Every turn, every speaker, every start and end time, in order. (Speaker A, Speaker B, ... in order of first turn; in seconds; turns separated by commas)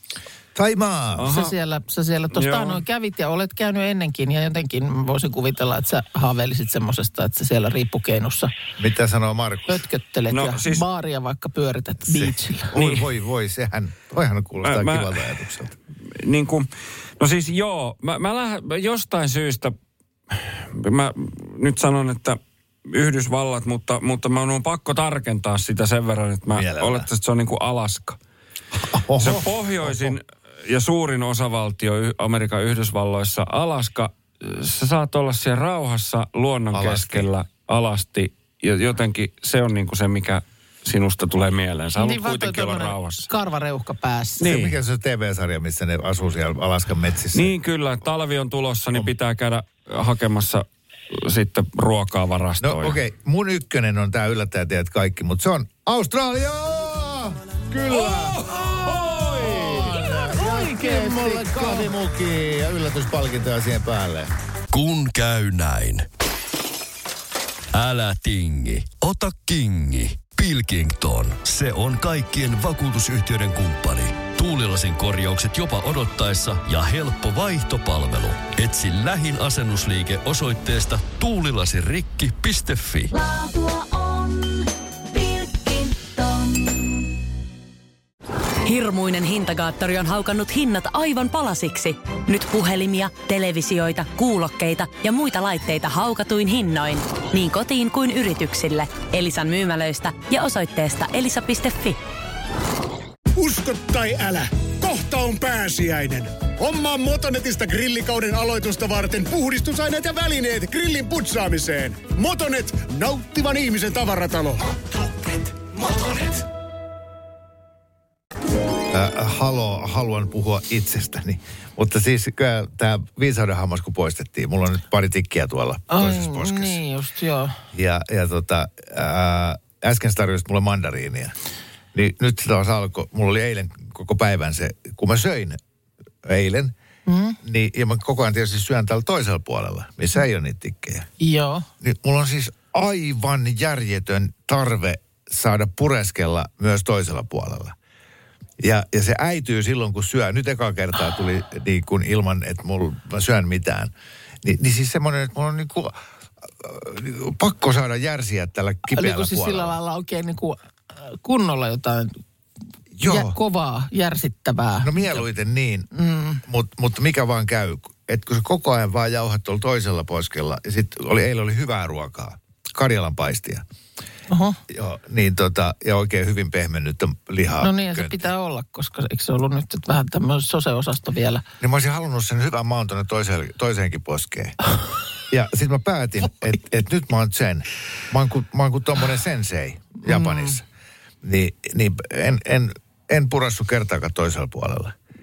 Speaker A: 0.5-1.3, Speaker B: 1.2-1.5, Speaker C: 1.2-8.5, Speaker B: 2.3-2.8, Speaker A: 8.8-9.8, Speaker C: 9.7-12.7, Speaker B: 10.3-10.8, Speaker A: 12.1-15.7, Speaker B: 12.7-13.1, Speaker B: 14.6-15.3, Speaker B: 16.1-16.7, Speaker B: 17.2-19.7, Speaker B: 20.3-28.2, Speaker A: 26.5-27.1, Speaker A: 28.7-30.2, Speaker B: 29.2-43.3, Speaker A: 36.7-37.3, Speaker C: 42.0-44.4, Speaker B: 44.4-44.8, Speaker A: 44.4-47.5, Speaker B: 47.3-53.0, Speaker A: 52.6-64.3, Speaker B: 57.9-60.0, Speaker C: 59.7-61.9, Speaker D: 64.7-66.1, Speaker D: 67.7-83.1, Speaker E: 83.1-87.1, Speaker E: 88.6-102.0, Speaker F: 103.3-116.4, Speaker A: 118.9-126.8, Speaker C: 125.9-127.5, Speaker A: 127.7-131.3, Speaker A: 131.9-135.6, Speaker A: 136.2-136.7, Speaker C: 137.1-137.4, Speaker A: 137.4-141.1, Speaker C: 141.2-141.7, Speaker A: 141.8-147.8, Speaker A: 148.6-153.9, Speaker A: 154.4-156.0, Speaker A: 156.6-159.8, Speaker C: 158.9-162.2, Speaker A: 162.9-163.4, Speaker C: 163.0-165.2, Speaker A: 164.8-165.9, Speaker C: 165.9-166.4, Speaker A: 166.4-173.6, Speaker C: 174.3-174.6, Speaker A: 174.7-178.2, Speaker C: 177.6-181.4, Speaker A: 181.6-184.6, Speaker A: 185.3-190.6, Speaker C: 190.0-190.6, Speaker A: 191.2-194.9